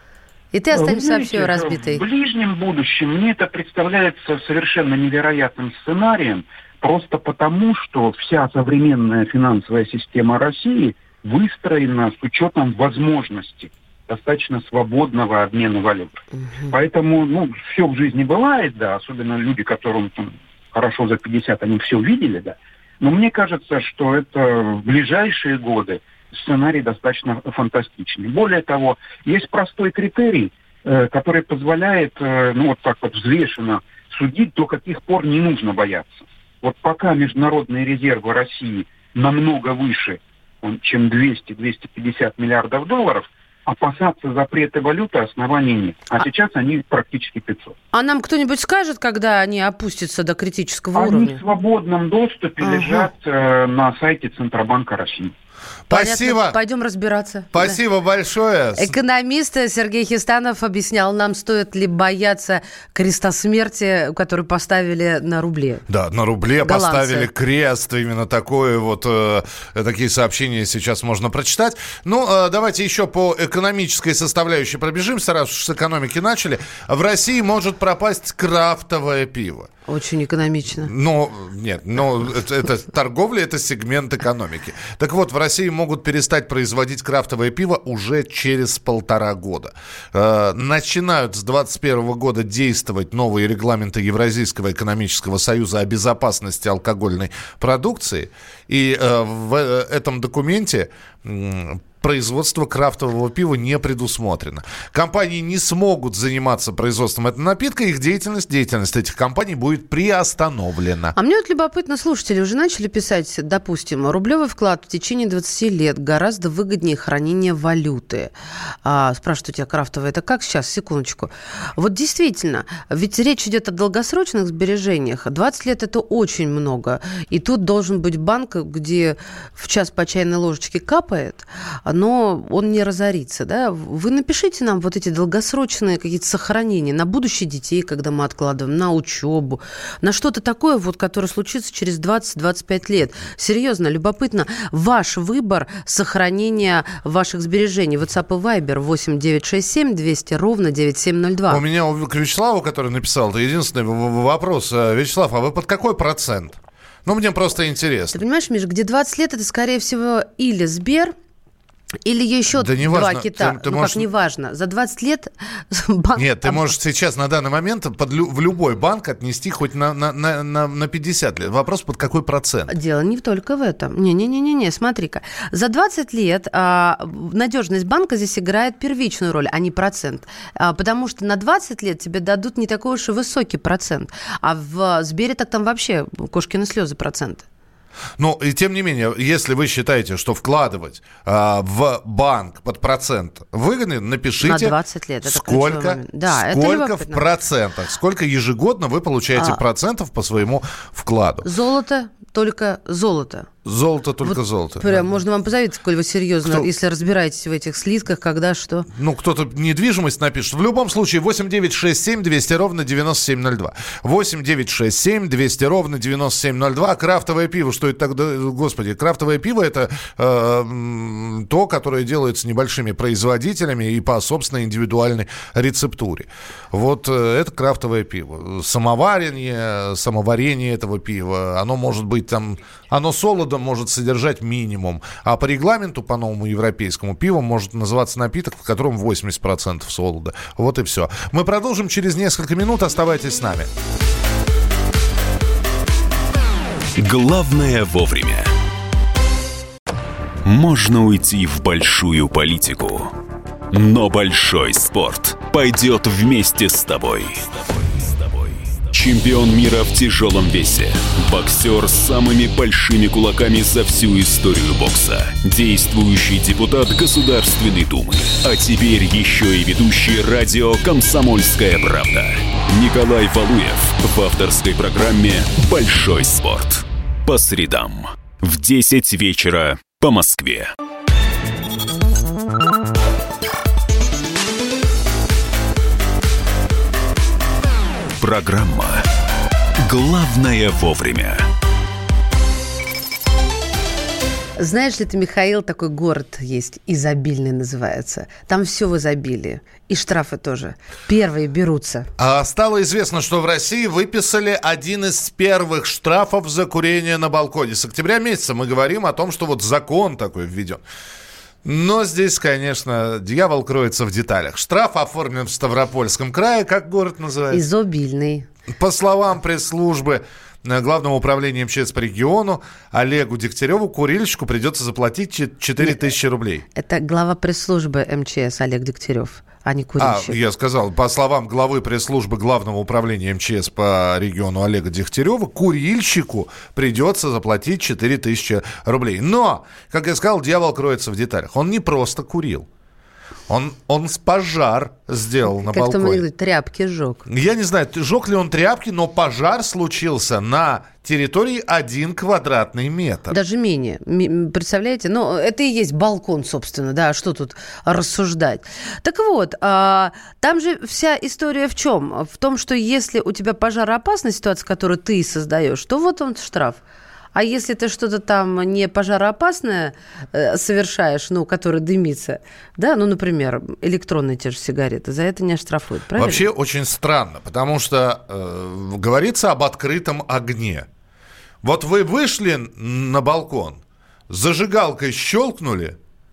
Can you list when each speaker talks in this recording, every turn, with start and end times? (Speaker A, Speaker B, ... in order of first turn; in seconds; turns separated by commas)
Speaker A: 0.5-2.0, Speaker B: 0.7-47.7, Speaker A: 47.9-51.4, Speaker B: 50.9-55.3, Speaker A: 52.6-53.1, Speaker C: 55.9-56.6, Speaker A: 55.9-57.8, Speaker C: 57.5-58.9, Speaker A: 58.8-65.8, Speaker C: 65.9-79.7, Speaker A: 66.6-67.3, Speaker A: 79.9-80.9, Speaker C: 80.8-111.2, Speaker A: 111.2-118.3, Speaker A: 118.8-151.6, Speaker C: 151.5-158.2, Speaker A: 158.1-161.1, Speaker A: 162.0-166.7, Speaker C: 162.5-164.1, Speaker C: 166.2-172.7, Speaker A: 172.7-187.4, Speaker C: 188.2-201.4, Speaker A: 194.4-197.2, Speaker A: 199.3-199.6, Speaker A: 201.4-203.5, Speaker C: 203.6-205.1, Speaker A: 204.2-208.9, Speaker C: 206.4-206.7, Speaker C: 208.9-243.7, Speaker D: 247.0-248.5, Speaker D: 250.4-253.1, Speaker D: 253.7-280.7, Speaker D: 288.2-289.0, Speaker D: 289.8-291.4, Speaker A: 294.6-302.1, Speaker C: 302.2-310.8, Speaker C: 311.6-317.6, Speaker A: 317.5-318.4, Speaker C: 318.7-326.6, Speaker A: 326.7-330.4, Speaker C: 330.0-342.7, Speaker C: 343.5-346.2, Speaker A: 345.5-347.2, Speaker C: 347.3-353.3, Speaker A: 353.3-366.8, Speaker A: 367.3-376.5, Speaker C: 376.1-380.9, Speaker C: 381.6-386.0